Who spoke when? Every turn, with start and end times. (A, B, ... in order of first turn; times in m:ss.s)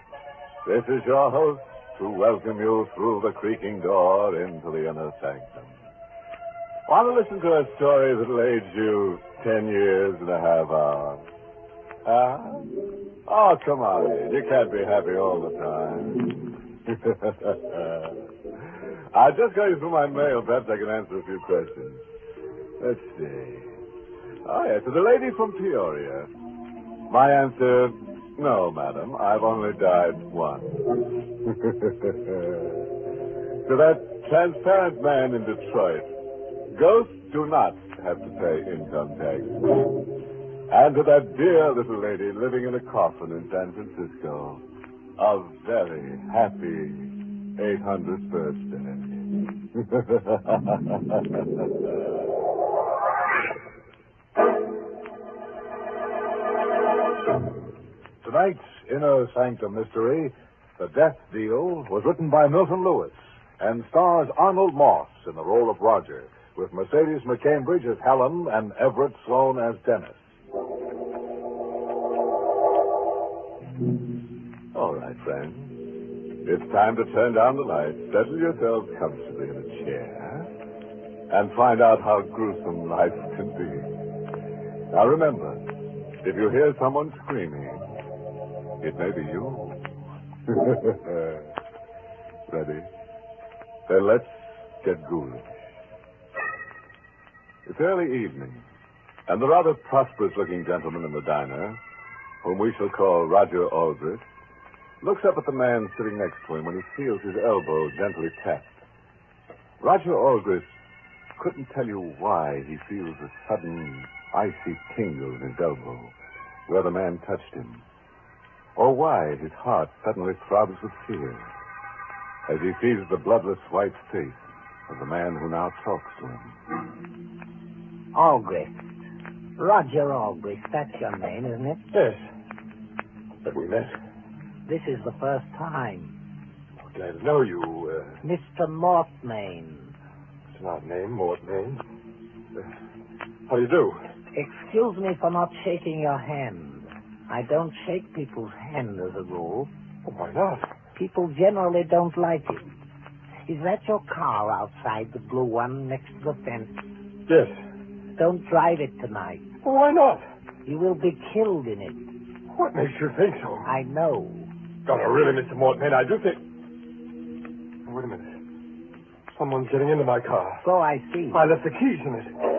0:00.6-0:05.7 A
0:06.8-0:11.3 A
0:12.0-0:22.0 A
0:22.8-0:23.8 A
0:24.4-0:26.3 A
0:27.1-0:32.8 A
0:33.6-0:36.1 A
0:36.7-0:39.9 A
0:40.7-0:44.6 A
0:45.2-0:51.6 A
0:58.2-1:10.3 B
1:14.7-1:15.9 A
1:16.4-1:20.5 A
1:21.3-1:23.9 A
1:24.9-1:25.7 A
1:26.2-1:27.9 A
1:28.8-1:29.9 A
1:30.5-1:31.5 A
1:32.5-1:32.9 A
1:33.9-1:35.5 A
1:37.6-1:38.6 A
1:39.3-1:41.8 A
1:42.4-1:44.2 A
1:45.0-1:48.8 A
1:49.8-1:50.7 A
1:51.4-1:56.1 A
1:56.7-1:57.8 A
1:58.8-2:01.5 A
2:02.4-2:06.6 A
2:08.1-2:08.8 C
2:09.6-2:11.8 C
2:11.9-2:12.3 D
2:13.4-2:14.0 D
2:14.6-2:16.2 C
2:16.8-2:18.2 D
2:18.2-2:19.9 C
2:20.5-2:21.8 D
2:23.5-2:24.0 D
2:24.3-2:29.7 C
2:30.0-2:30.7 D
2:31.0-2:32.7 C
2:33.4-2:36.8 C
2:37.3-2:37.6 D
2:38.2-2:39.5 C
2:39.6-2:40.3 D
2:40.6-2:42.0 C
2:42.5-2:43.7 D
2:43.6-2:44.5 C
2:44.8-2:46.4 D
2:47.8-2:48.4 D
2:49.3-2:50.6 D
2:50.6-2:51.4 C
2:51.3-2:52.3 D